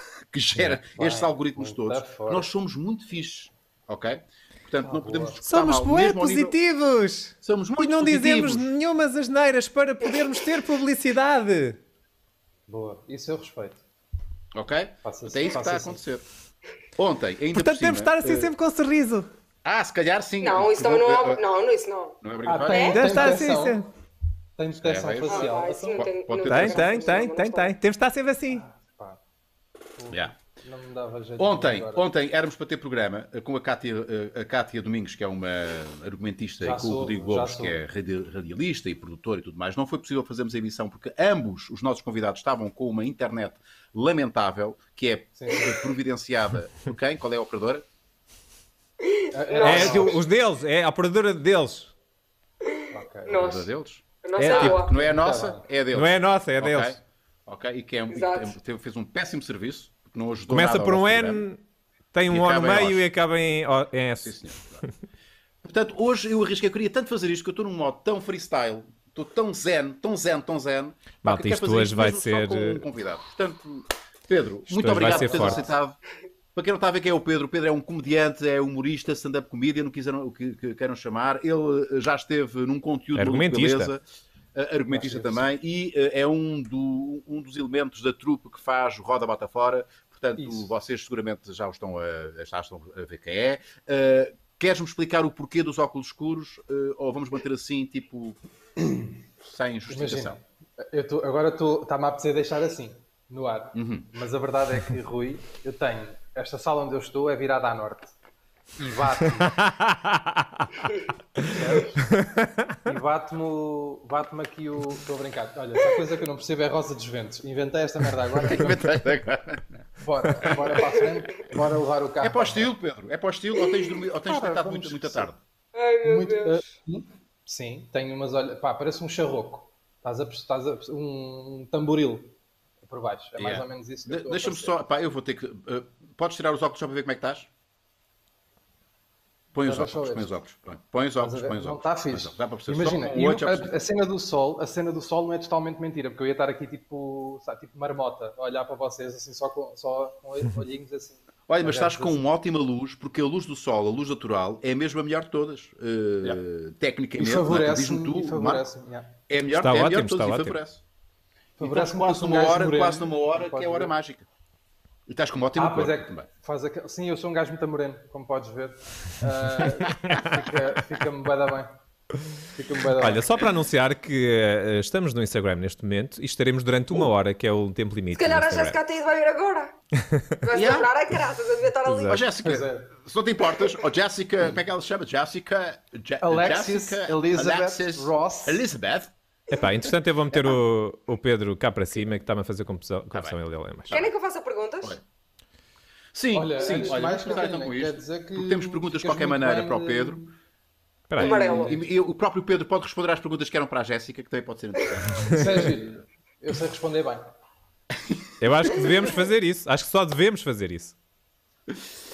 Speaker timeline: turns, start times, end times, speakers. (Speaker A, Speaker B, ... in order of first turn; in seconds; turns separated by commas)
Speaker A: 0.3-6.6, Speaker B: 0.6-2.5, Speaker B: 4.8-5.4, Speaker C: 5.4-11.8, Speaker A: 7.4-8.7, Speaker B: 12.7-13.8, Speaker A: 14.5-16.2, Speaker B: 15.0-16.0, Speaker A: 17.0-18.5, Speaker C: 17.5-19.3, Speaker A: 19.6-21.4, Speaker D: 20.4-23.2, Speaker A: 22.2-23.4, Speaker B: 22.4-23.9, Speaker C: 22.8-23.9, Speaker B: 24.6-26.1, Speaker A: 24.8-27.0, Speaker D: 25.2-27.8, Speaker C: 26.5-28.6, Speaker B: 26.7-27.1, Speaker B: 28.5-29.2, Speaker B: 30.0-32.0, Speaker A: 30.1-30.3, Speaker A: 31.4-47.9, Speaker B: 36.6-37.8, Speaker B: 45.4-45.8, Speaker D: 49.0-50.2, Speaker B: 49.3-50.2, Speaker C: 49.6-51.9, Speaker D: 52.8-53.7, Speaker B: 52.9-53.5, Speaker A: 53.2-61.4, Speaker D: 54.2-54.9, Speaker C: 54.4-54.8, Speaker B: 54.9-55.6, Speaker C: 55.9-57.0, Speaker D: 58.1-58.5, Speaker C: 60.5-61.6, Speaker C: 62.1-64.4, Speaker A: 62.3-63.0, Speaker A: 64.2-64.8, Speaker A: 65.6-76.0, Speaker C: 71.2-72.8, Speaker C: 74.7-75.7, Speaker B: 74.9-75.7, Speaker A: 76.5-84.0, Speaker C: 83.2-83.9, Speaker A: 84.5-98.4, Speaker B: 84.9-85.4, Speaker B: 90.4-90.7, Speaker B: 98.8-99.2, Speaker A: 99.4-100.4, Speaker B: 99.9-108.1, Speaker A: 103.7-104.1, Speaker B: 108.8-109.6, Speaker C: 109.6-110.6, Speaker B: 111.4-112.1, Speaker C: 112.2-112.7, Speaker B: 112.8-118.8, Speaker A: 118.4-119.8, Speaker B: 120.0-122.7, Speaker A: 120.4-120.9, Speaker A: 122.2-125.4, Speaker B: 124.3-125.3, Speaker D: 125.7-126.6, Speaker B: 126.0-134.8, Speaker A: 133.4-137.5, Speaker A: 139.5-143.7, Speaker B: 139.6-140.3, Speaker B: 141.2-152.2, Speaker A: 151.5-158.7, Speaker B: 157.2-159.1, Speaker A: 159.3-160.8, Speaker C: 159.6-160.6, Speaker B: 161.6-163.9, Speaker A: 161.6-164.3, Speaker A: 165.1-166.3, Speaker B: 165.6-171.8, Speaker A: 169.8-170.2, Speaker B: 172.5-173.3, Speaker C: 173.0-178.8, Speaker D: 178.1-179.7, Speaker C: 179.9-180.3, Speaker D: 180.4-182.2, Speaker A: 180.5-180.9, Speaker C: 181.8-182.2, Speaker A: 182.0-189.1, Speaker B: 182.4-182.9, Speaker B: 186.2-188.7, Speaker C: 189.5-194.0, Speaker A: 193.1-194.1, Speaker D: 193.9-195.0, Speaker A: 196.1-200.2, Speaker B: 196.3-200.3, Speaker C: 201.1-201.5, Speaker D: 201.2-201.8, Speaker A: 201.2-205.7, Speaker B: 201.2-201.8, Speaker B: 205.3-207.2, Speaker C: 208.4-210.9